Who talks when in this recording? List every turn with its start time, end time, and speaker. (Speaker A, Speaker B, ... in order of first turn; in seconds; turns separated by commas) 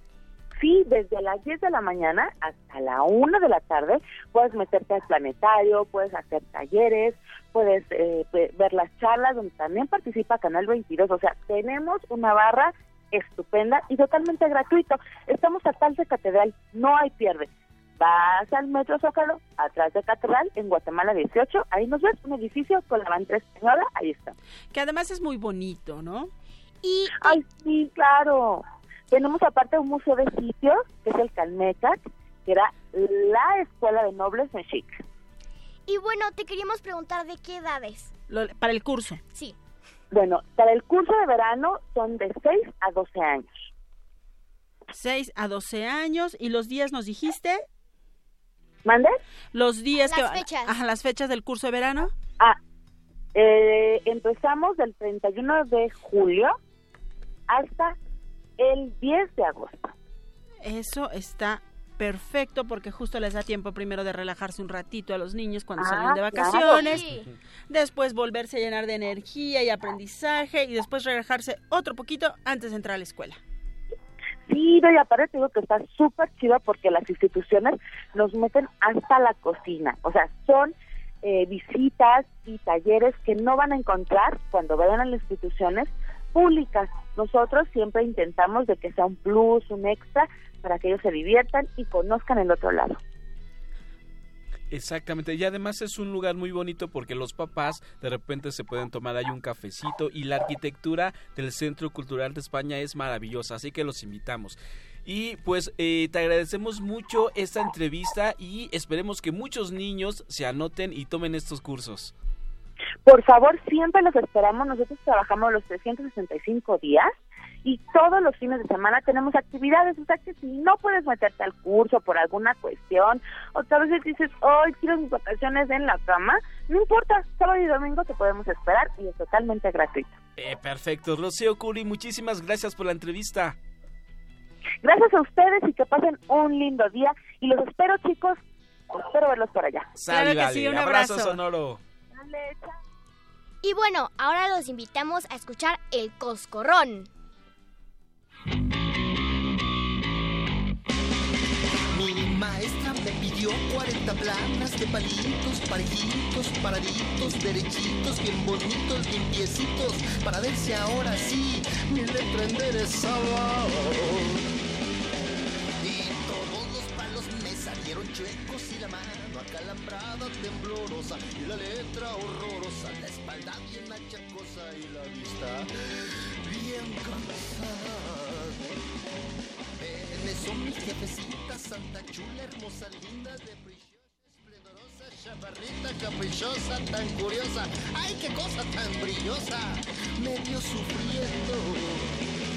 Speaker A: 0.6-24.4, Speaker B: 24.7-26.3, Speaker C: 26.8-27.4, Speaker A: 27.2-35.0, Speaker C: 35.9-38.1, Speaker B: 38.3-39.2, Speaker A: 40.1-43.5, Speaker B: 44.9-47.6, Speaker A: 48.8-49.2, Speaker B: 49.5-52.1, Speaker C: 50.0-50.8, Speaker A: 53.3-56.5, Speaker A: 57.5-58.0, Speaker A: 58.6-59.9, Speaker B: 60.6-67.1, Speaker A: 65.8-66.8, Speaker C: 66.7-67.3, Speaker B: 67.7-73.4, Speaker A: 74.5-93.0, Speaker D: 94.7-112.1, Speaker A: 113.0-117.1, Speaker A: 117.6-130.1, Speaker D: 130.4-133.6, Speaker A: 134.8-139.9, Speaker D: 140.0-141.8, Speaker B: 140.1-141.4, Speaker A: 142.1-142.7, Speaker C: 143.6-147.1, Speaker E: 151.9-164.4, Speaker E: 165.8-178.8, Speaker E: 179.8-192.2